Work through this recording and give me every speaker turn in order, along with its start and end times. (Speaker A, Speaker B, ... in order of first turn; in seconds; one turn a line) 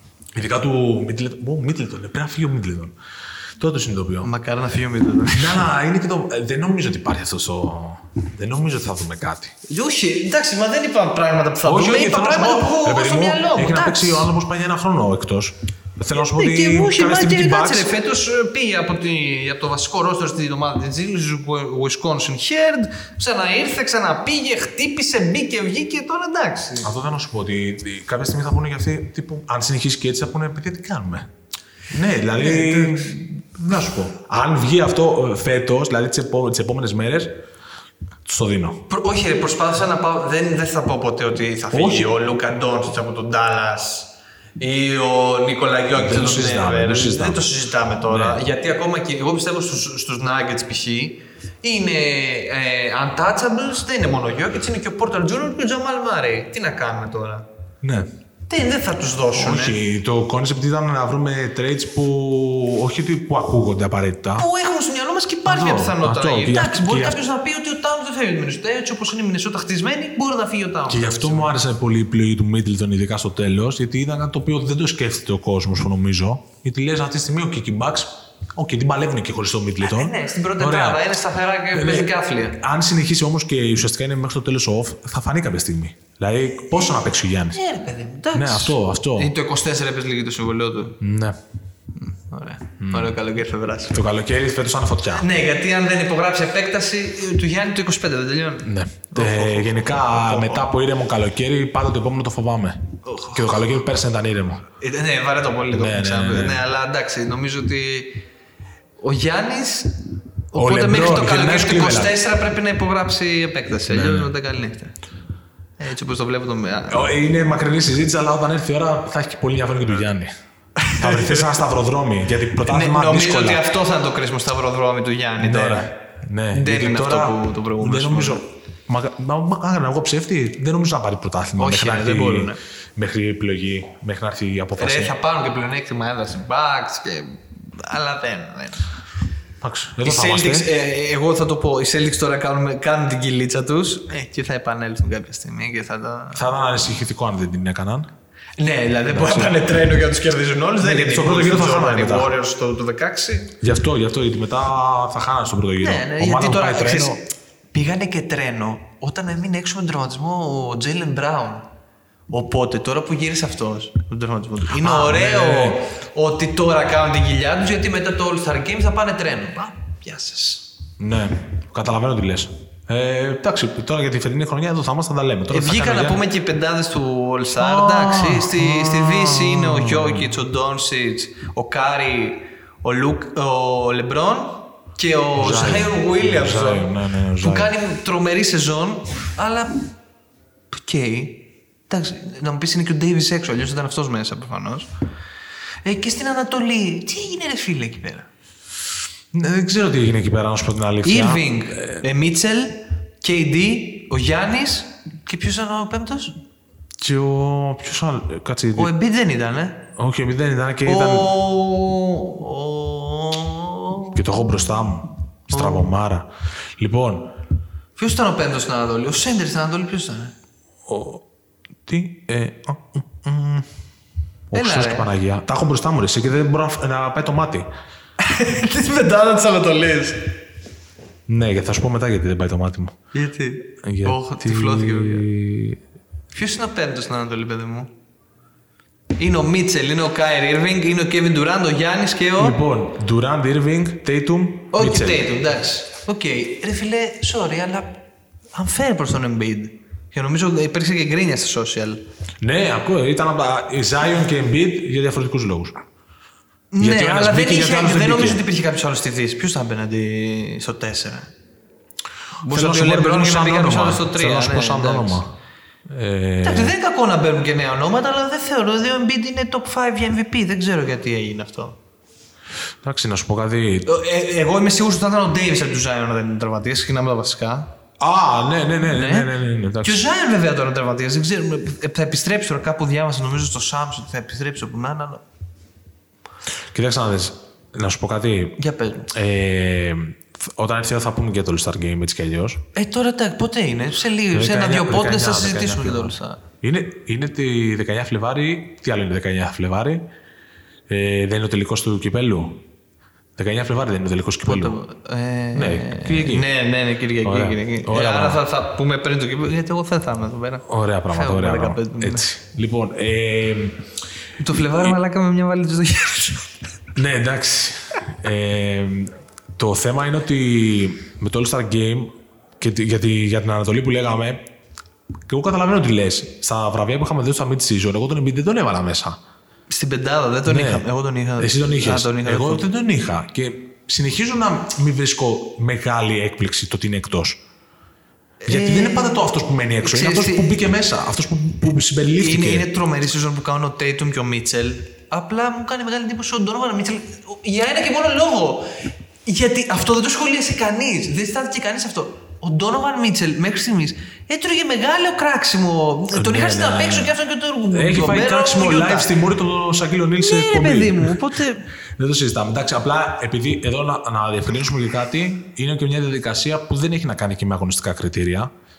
Speaker A: 0.3-3.0
Speaker A: 3.6-4.3
Speaker B: 4.2-5.7
Speaker A: 5.3-9.6
Speaker B: 9.7-14.3
Speaker A: 11.6-17.9
Speaker B: 16.2-26.9
Speaker A: 26.8-31.3
Speaker A: 31.9-37.4
Speaker B: 32.4-33.2
Speaker A: 38.3-38.9
Speaker B: 38.9-57.5
Speaker A: 41.7-42.1
Speaker A: 45.9-47.5
Speaker A: 48.1-48.4
Speaker A: 57.8-58.1
Speaker B: 58.5-59.8
Speaker A: 59.3-64.5
Speaker B: 64.4-71.5
Speaker A: 65.5-67.2
Speaker A: 70.9-81.1
Speaker B: 79.8-82.6
Speaker A: 81.7-87.6
Speaker B: 87.5-91.0
Speaker A: 88.3-89.3
Speaker A: 91.0-91.4
Speaker B: 92.0-94.0
Speaker A: 92.8-93.1
Speaker A: 93.9-95.3
Speaker B: 95.2-100.7
Speaker A: 98.6-104.6
Speaker B: 103.0-103.7
Speaker B: 104.8-108.2
Speaker A: 105.7-106.7
Speaker B: 109.0-110.0
Speaker B: 110.5-115.0
Speaker A: 110.5-112.2
Speaker A: 113.9-114.3
Speaker B: 115.8-117.1
Speaker A: 116.9-120.3
Speaker B: 120.8-121.4
Speaker A: 120.9-123.6
Speaker B: 122.7-126.0
Speaker A: 125.4-135.1
Speaker B: 126.5-128.4
Speaker B: 131.6-132.6
Speaker B: 134.8-138.9
Speaker A: 139.6-140.7
Speaker B: 140.0-146.4
Speaker A: 146.3-148.1
Speaker B: 148.6-153.6
Speaker A: 149.1-149.7
Speaker A: 150.8-152.3
Speaker A: 153.6-157.2
Speaker B: 155.8-161.7
Speaker B: 162.3-170.7
Speaker A: 164.7-165.8
Speaker A: 171.0-176.2
Speaker B: 175.5-186.9
Speaker A: 177.6-180.3
Speaker A: 185.4-187.7
Speaker B: 187.4-189.9
Speaker B: 190.7-194.9
Speaker B: 195.8-198.3
Speaker A: 199.3-202.0
Speaker B: 201.0-206.4
Speaker A: 207.0-208.9
Speaker B: 208.8-209.8
Speaker A: 209.9-211.3
Speaker B: 210.8-214.2
Speaker A: 214.1-217.3
Speaker B: 215.5-215.9
Speaker B: 218.0-220.3
Speaker A: 220.9-221.2
Speaker A: 221.9-223.7
Speaker A: 224.5-227.7
Speaker B: 224.5-225.1
Speaker B: 228.2-230.3
Speaker A: 231.3-233.0
Speaker B: 233.1-235.3
Speaker A: 233.8-235.8
Speaker B: 236.3-237.9
Speaker B: 239.2-242.6
Speaker A: 242.4-245.3
Speaker B: 244.7-248.0
Speaker B: 248.5-252.0
Speaker A: 252.4-255.8
Speaker B: 256.7-261.3
Speaker A: 256.8-258.4
Speaker B: 262.4-265.2
Speaker A: 262.5-265.3
Speaker A: 265.9-266.7
Speaker B: 266.4-271.8
Speaker A: 272.8-273.9
Speaker B: 273.9-277.7
Speaker A: 278.0-280.1
Speaker B: 278.9-279.3
Speaker B: 279.8-285.2
Speaker A: 286.7-288.6
Speaker B: 288.6-289.1
Speaker A: 289.1-292.6
Speaker B: 292.7-296.4
Speaker A: 294.3-300.1
Speaker A: 300.9-302.6
Speaker A: 303.4-304.8
Speaker B: 304.4-312.3
Speaker A: 305.5-306.5
Speaker A: 307.2-308.4
Speaker A: 310.7-313.8
Speaker B: 314.4-316.6
Speaker A: 316.9-324.4
Speaker A: 325.3-329.2
Speaker B: 329.7-332.6
Speaker A: 330.5-330.9
Speaker A: 331.4-337.4
Speaker B: 338.4-339.2
Speaker A: 338.5-342.7
Speaker B: 339.8-340.6
Speaker B: 342.2-348.7
Speaker B: 349.2-359.1
Speaker A: 356.1-357.1
Speaker A: 357.7-361.3
Speaker B: 360.2-361.7
Speaker A: 362.0-368.5